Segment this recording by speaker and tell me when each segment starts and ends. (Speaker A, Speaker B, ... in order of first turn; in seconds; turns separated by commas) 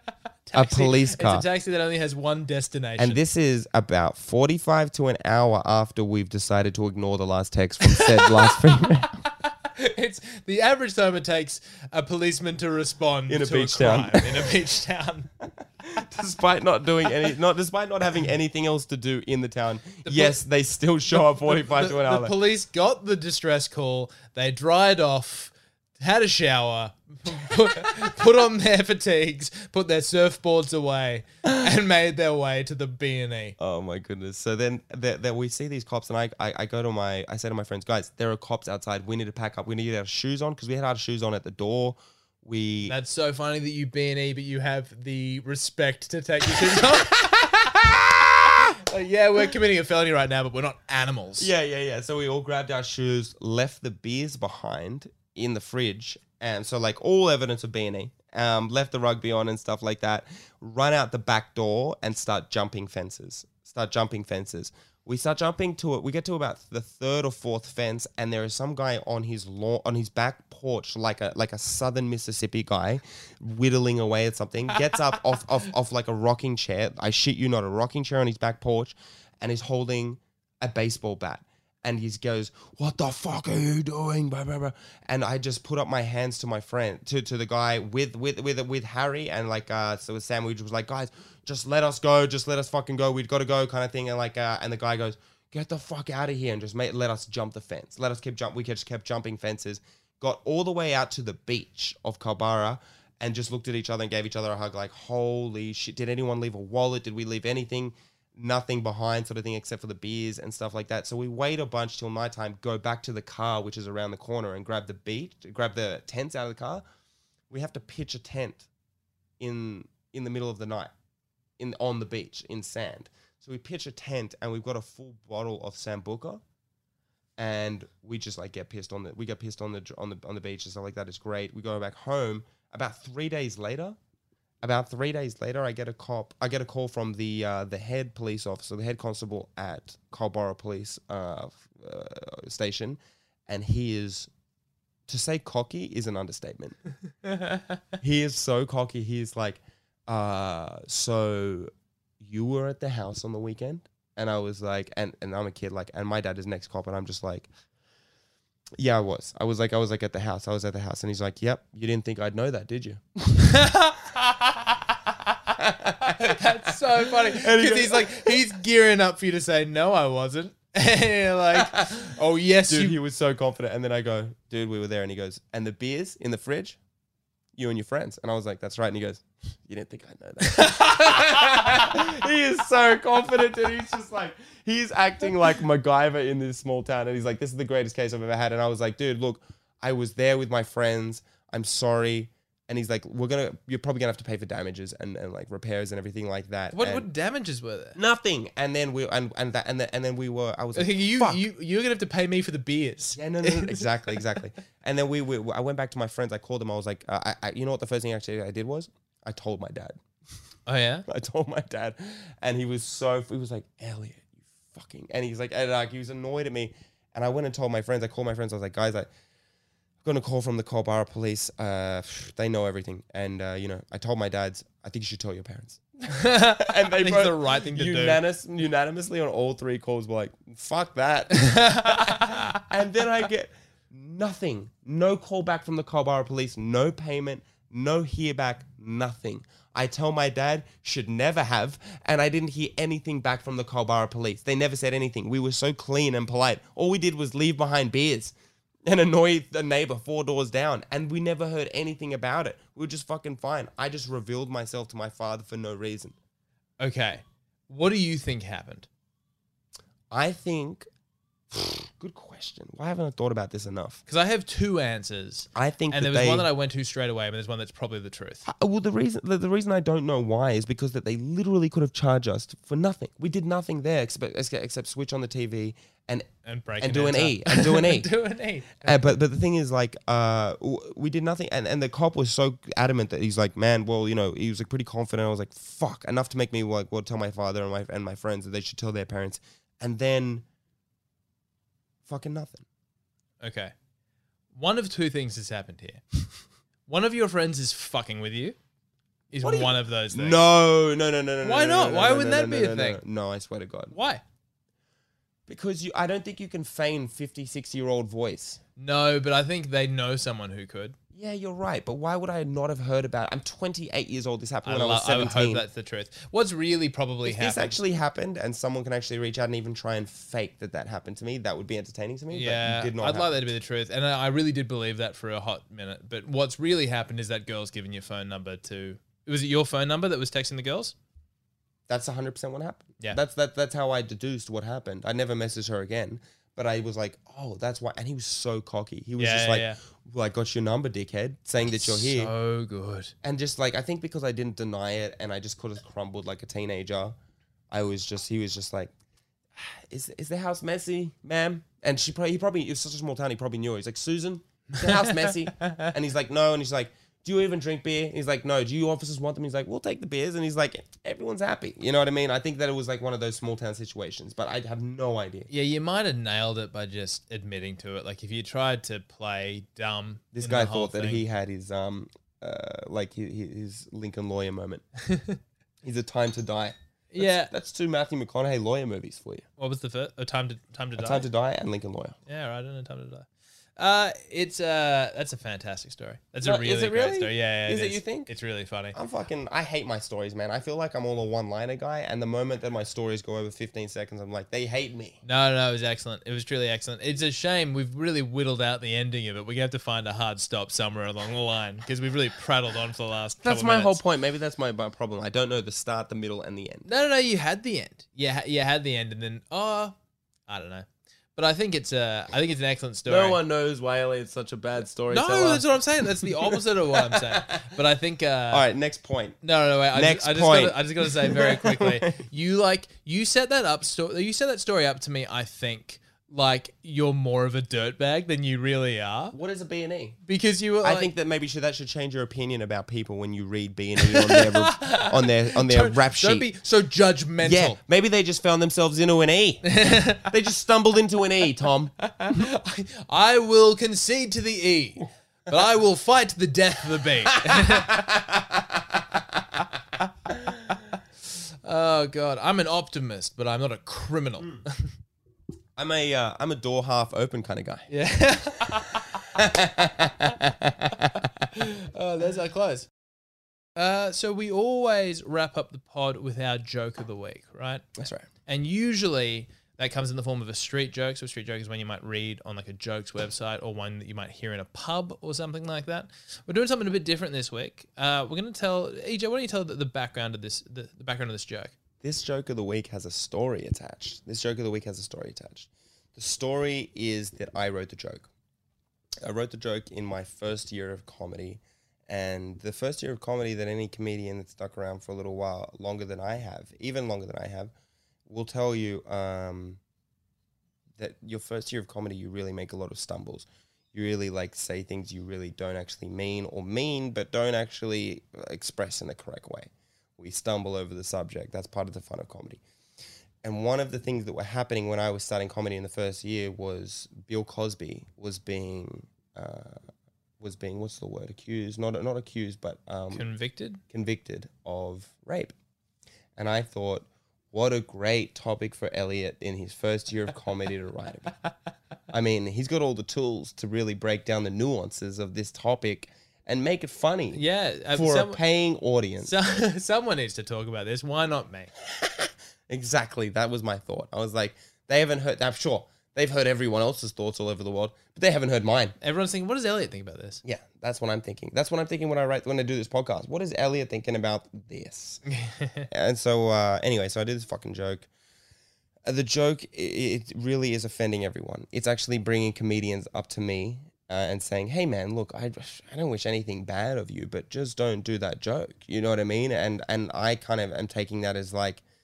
Speaker A: 0.5-3.2, Speaker B: 0.5-1.4, Speaker B: 3.0-9.2, Speaker A: 7.9-8.5, Speaker A: 9.2-15.3, Speaker B: 13.3-14.6, Speaker B: 15.4-22.3, Speaker A: 20.0-20.4, Speaker A: 21.1-33.5, Speaker B: 33.6-42.9, Speaker A: 42.9-47.4, Speaker B: 46.5-48.7, Speaker A: 48.5-51.5, Speaker B: 51.4-116.8, Speaker B: 117.5-118.7, Speaker B: 119.4-120.9, Speaker B: 121.6-126.4, Speaker B: 127.4-134.0, Speaker B: 134.6-144.3, Speaker B: 145.1-146.8, Speaker B: 148.0-157.5, Speaker B: 158.8-163.6, Speaker A: 163.4-164.5, Speaker B: 165.5-168.5, Speaker A: 166.1-173.0, Speaker B: 171.5-172.1, Speaker B: 172.7-176.8, Speaker B: 177.6-197.1, Speaker A: 180.5-181.2, Speaker A: 196.7-198.0, Speaker B: 197.9-201.4, Speaker A: 200.7-204.2, Speaker B: 203.2-210.0, Speaker A: 210.7-211.1, Speaker B: 211.1-219.1, Speaker B: 220.0-256.1, Speaker A: 226.1-228.2, Speaker A: 231.3-232.6, Speaker A: 256.8-258.9, Speaker B: 260.1-260.9, Speaker B: 261.5-264.0, Speaker A: 264.1-268.4, Speaker B: 265.5-266.5, Speaker B: 268.4-276.3, Speaker A: 276.4-279.1, Speaker B: 276.8-278.1, Speaker B: 278.8-290.4, Speaker B: 292.0-292.6, Speaker A: 293.4-293.7, Speaker A: 294.5-296.0, Speaker A: 296.9-298.6, Speaker A: 299.3-300.4, Speaker B: 299.4-303.9, Speaker A: 301.4-303.0, Speaker A: 303.9-304.2, Speaker B: 305.5-308.6, Speaker A: 308.8-310.9, Speaker B: 311.1-315.6, Speaker A: 314.6-317.8, Speaker B: 317.2-323.3, Speaker A: 322.3-330.9, Speaker B: 331.9-342.3, Speaker A: 339.2-339.8, Speaker A: 341.6-343.1, Speaker B: 343.2-347.1, Speaker B: 347.7-348.9, Speaker B: 349.5-365.5, Speaker A: 354.8-355.1, Speaker A: 355.6-355.9, Speaker A: 365.5-371.2, Speaker B: 370.3-374.8, Speaker A: 375.0-375.4, Speaker B: 375.8-379.4, Speaker A: 377.1-377.5, Speaker A: 379.6-381.3, Speaker B: 381.0-382.1, Speaker A: 382.2-388.9, Speaker B: 386.4-388.3, Speaker B: 388.9-395.2, Speaker A: 395.2-404.0, Speaker B: 403.4-406.9, Speaker A: 406.8-409.9, Speaker A: 410.5-413.4, Speaker B: 413.1-417.7, Speaker A: 415.1-418.6, Speaker B: 418.5-419.4, Speaker A: 419.4-429.4, Speaker B: 419.9-422.0, Speaker B: 429.3-430.2, Speaker A: 430.2-431.1, Speaker B: 430.8-436.5, Speaker A: 434.0-437.8, Speaker B: 437.4-441.9, Speaker A: 439.6-440.3, Speaker A: 442.0-448.0, Speaker B: 447.4-449.2, Speaker A: 451.6-454.9, Speaker B: 455.8-457.9, Speaker A: 457.9-459.1, Speaker B: 458.7-461.2, Speaker A: 461.4-462.9, Speaker A: 463.8-467.9, Speaker B: 467.9-468.3, Speaker A: 468.4-481.8, Speaker B: 482.0-488.3, Speaker B: 489.2-497.7, Speaker B: 498.3-499.8, Speaker B: 501.0-512.6, Speaker B: 513.4-519.8, Speaker B: 520.4-523.3, Speaker A: 523.1-523.8, Speaker B: 523.9-525.5, Speaker B: 526.4-531.3, Speaker B: 532.1-539.3, Speaker A: 537.3-538.4, Speaker A: 539.2-541.7, Speaker B: 541.8-549.0, Speaker A: 549.0-550.4, Speaker B: 550.4-555.2, Speaker A: 555.3-555.9, Speaker B: 555.9-558.1, Speaker B: 559.0-571.8